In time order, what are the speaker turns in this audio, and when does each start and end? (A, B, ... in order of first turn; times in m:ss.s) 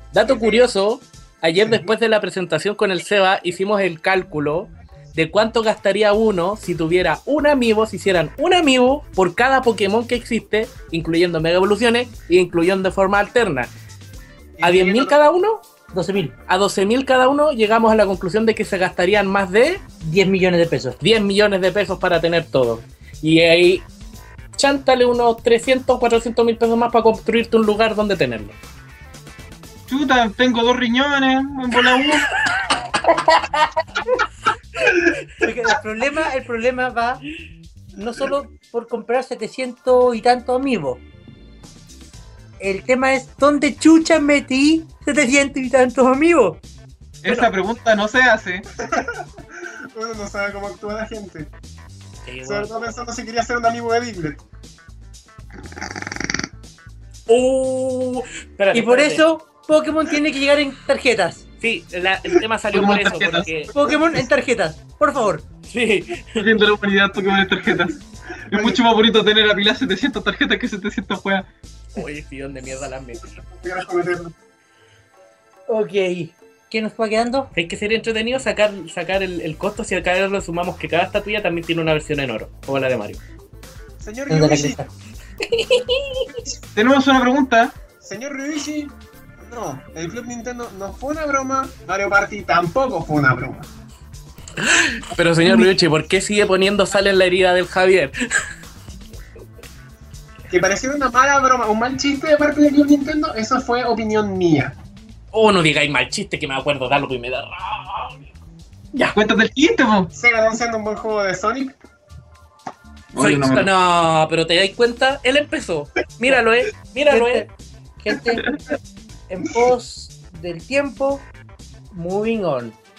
0:00.1-0:13.7 A
0:00.2-0:00.7 B
0:01.6-0:01.9 B
0:14.6-0:15.2 B
0:14.6-0:15.6 A
0:15.9-0:16.4 C
0:16.5-0:19.8 A
0:20.0-0:21.0 C
0:21.0-0:23.9 A
0:24.6-0:28.6 A
0:29.9-0:32.4 D
0:32.3-0:33.2 A
0:35.4-0:37.2 C
0:38.0-0:41.0 C
0:42.6-0:46.6 C
0:47.2-0:48.7 D
0:48.8-0:51.5 B
0:52.2-0:52.7 A
0:52.4-0:54.4 B
0:57.3-0:59.2 A
0:58.7-1:01.4 C
1:01.6-1:03.7 A
1:02.7-1:04.0 D
1:03.7-1:05.4 C
1:05.7-1:06.5 A
1:06.4-1:11.5 D
1:08.5-1:08.8 B
1:12.0-1:13.4 A
1:13.4-1:14.3 B
1:15.7-1:17.5 C
1:17.6-1:23.2 A
1:24.0-1:24.8 B
1:24.3-1:24.9 C
1:25.4-1:26.4 A
1:26.7-1:27.8 D
1:28.0-1:33.7 B
1:34.6-1:38.1 A
1:40.5-1:44.8 B
1:45.3-1:48.3 A
1:49.1-1:50.1 D
1:50.1-1:51.8 B
1:53.1-1:53.7 D
1:53.2-1:57.5 A
1:57.1-1:58.4 C
1:59.3-2:01.3 C
2:01.9-2:02.8 C